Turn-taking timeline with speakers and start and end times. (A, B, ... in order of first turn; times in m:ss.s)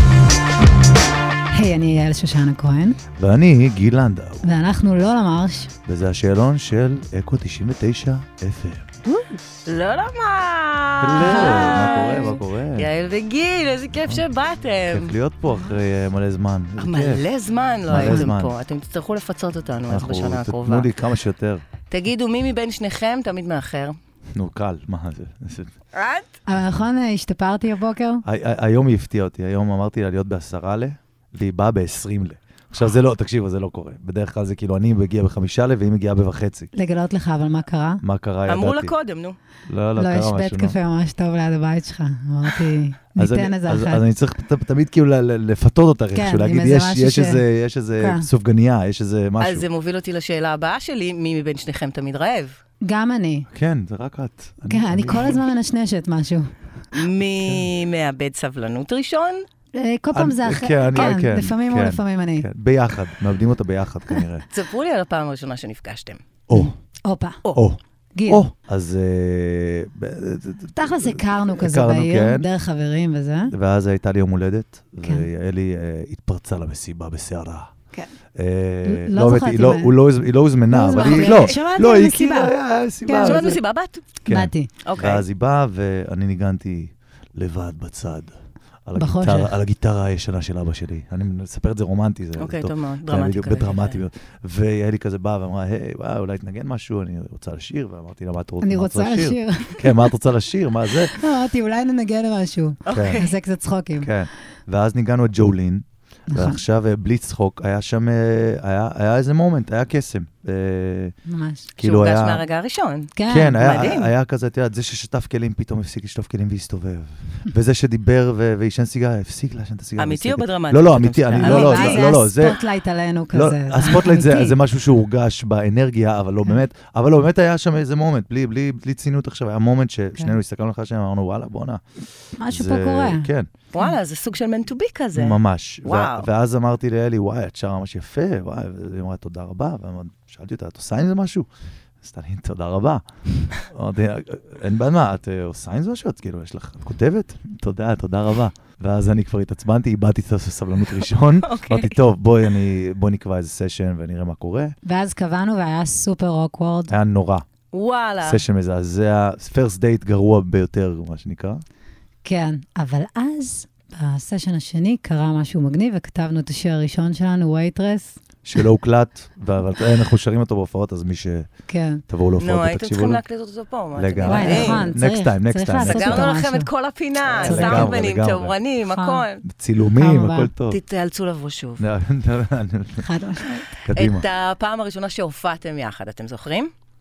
0:01.5-0:03.0 A
0:03.2-0:04.5 B
0:04.4-0:05.7 A
0:05.8-0:08.9 B
0:09.1-0:15.2 C
0:11.0-0:12.9 B
0:14.9-0:17.2 B
0:16.8-0:20.9 C
0:17.9-0:18.5 B
0:18.0-0:18.3 A
0:19.9-0:21.6 B
0:21.9-0:24.0 C
0:24.4-0:25.7 B
0:25.9-0:26.3 C
0:26.5-0:28.2 A
0:28.2-0:36.7 B
0:36.7-0:38.0 A
0:38.0-0:38.9 B
0:38.5-0:39.4 C
0:39.7-0:40.8 B
0:40.0-0:44.0 A
0:43.2-0:49.7 B
0:46.1-0:47.4 A
0:48.0-0:48.3 A
0:49.4-0:52.6 C
0:52.8-0:53.5 A
0:53.5-0:55.4 B
0:54.7-0:56.5 A
0:56.9-0:59.5 C
0:57.4-0:57.7 B
0:59.7-1:02.5 A
1:00.1-1:04.5 B
1:04.5-1:06.2 C
1:06.5-1:06.7 B
1:06.5-1:07.4 A
1:07.5-1:12.5 B
1:08.2-1:08.4 A
1:10.8-1:13.5 A
1:13.5-1:17.7 B
1:15.0-1:15.3 A
1:18.4-1:23.6 B
1:18.8-1:20.0 A
1:20.7-1:23.6 A
1:21.1-1:21.6 C
1:23.2-1:24.1 C
1:24.2-1:28.3 B
1:24.2-1:24.7 A
1:24.8-1:25.2 C
1:28.9-1:41.2 B
1:29.0-1:29.6 A
1:32.4-1:34.0 C
1:38.6-1:40.0 A
1:41.0-1:44.1 A
1:42.9-1:43.4 C
1:42.9-1:43.2 B
1:44.0-1:51.1 B
1:46.3-1:46.6 A
1:51.3-1:51.7 A
1:51.8-1:52.4 B
1:51.8-1:54.1 C
1:53.2-1:53.9 A
1:53.3-2:02.6 B
2:00.0-2:02.2 C
2:01.4-2:04.6 A
2:03.3-2:11.8 B
2:12.4-2:13.9 A
2:12.4-2:13.5 B
2:13.7-2:16.3 C
2:15.1-2:21.5 B
2:22.0-2:34.8 B
2:31.4-2:32.0 C
2:34.8-2:37.0 A
2:36.9-2:37.4 B
2:37.7-2:38.4 C
2:38.2-2:41.6 B
2:42.2-2:48.2 A
2:48.4-2:51.5 B
2:51.7-2:52.0 A
2:52.1-2:53.2 B
2:52.4-2:54.9 C
2:53.9-2:56.3 B
2:54.2-2:56.7 A
2:55.8-2:59.4 C
2:57.4-2:58.6 B
2:57.4-2:58.0 A
2:58.8-2:59.2 A
2:59.4-3:00.8 B
2:59.9-3:00.5 A
3:00.7-3:01.8 C
3:01.8-3:03.1 B
3:03.0-3:03.8 A
3:03.8-3:04.3 B
3:04.0-3:06.7 C